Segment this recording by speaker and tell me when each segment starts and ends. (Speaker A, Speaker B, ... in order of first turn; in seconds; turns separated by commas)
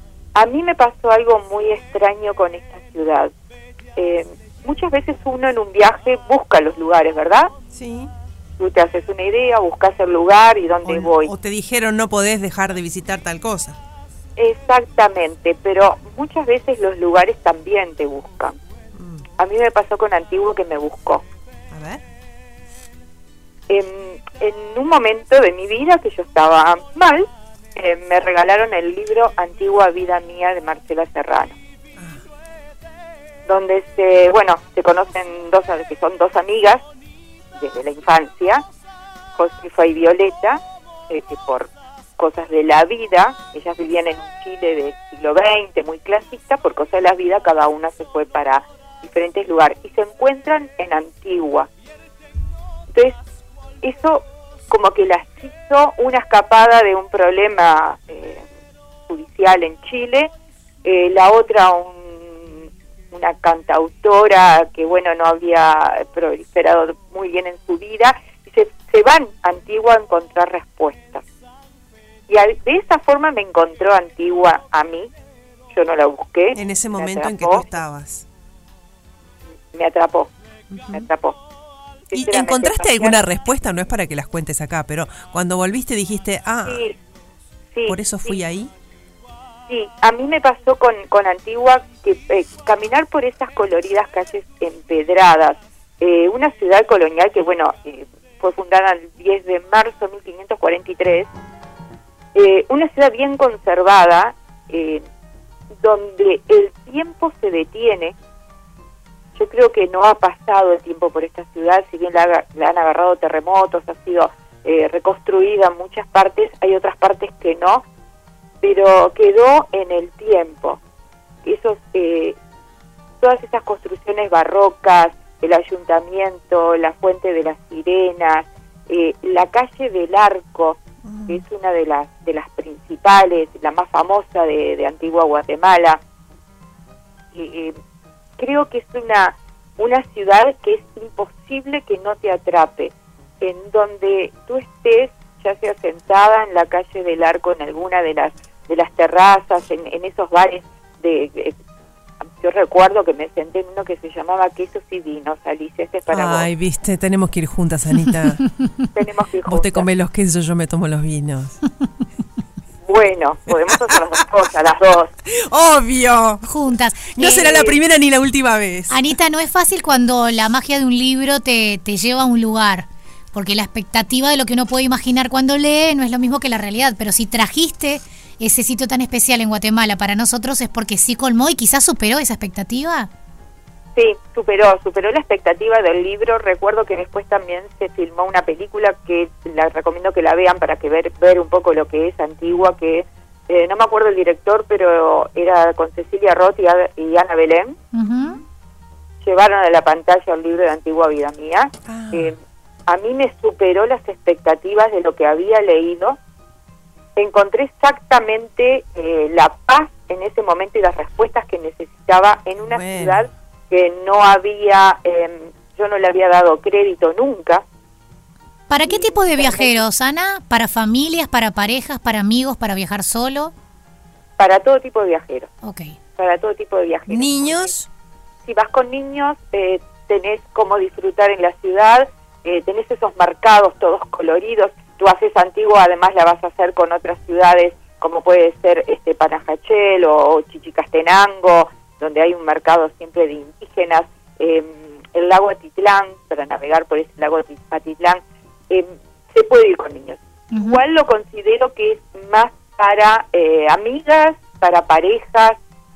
Speaker A: 0.3-3.3, Speaker A: 4.0-7.5, Speaker B: 7.7-8.1, Speaker A: 8.6-11.3, Speaker B: 10.8-13.8, Speaker A: 14.4-18.6, Speaker B: 18.9-19.3, Speaker A: 19.4-21.2, Speaker B: 21.7-22.0, Speaker A: 23.7-31.6, Speaker B: 32.0-32.2, Speaker A: 33.5-36.9, Speaker A: 37.6-38.6, Speaker A: 39.4-51.7, Speaker A: 52.9-53.2, Speaker A: 53.8-58.5, Speaker A: 59.1-60.3, Speaker A: 60.8-71.2, Speaker A: 72.3-75.1, Speaker A: 75.7-77.7, Speaker B: 76.5-78.3, Speaker A: 79.7-80.3, Speaker B: 80.7-81.1, Speaker A: 80.9-81.4, Speaker A: 82.1-83.2, Speaker B: 82.1-86.8, Speaker A: 86.7-87.0, Speaker A: 87.7-88.4, Speaker B: 87.9-88.7, Speaker A: 89.7-101.3, Speaker A: 102.3-105.0, Speaker A: 105.8-108.2, Speaker A: 109.3-117.8, Speaker A: 118.6-120.8, Speaker A: 121.4-122.4, Speaker A: 123.2-136.0, Speaker B: 131.1-131.4, Speaker A: 137.3-137.8, Speaker A: 138.4-151.6, Speaker A: 152.4-156.5, Speaker B: 156.1-158.4, Speaker A: 158.9-159.9, Speaker B: 159.5-161.6, Speaker A: 162.8-165.1, Speaker B: 163.5-164.2, Speaker B: 165.3-166.5, Speaker C: 166.4-167.8, Speaker B: 167.2-169.1, Speaker C: 168.9-183.1, Speaker A: 183.9-197.8, Speaker C: 197.9-198.4, Speaker A: 199.2-206.2, Speaker B: 201.9-202.3, Speaker A: 207.2-217.6, Speaker B: 212.6-213.3, Speaker C: 218.7-223.5, Speaker A: 218.8-219.8, Speaker A: 224.4-225.5, Speaker C: 225.6-225.9, Speaker A: 226.2-227.8, Speaker B: 227.1-227.9, Speaker A: 228.4-255.6, Speaker C: 250.5-250.8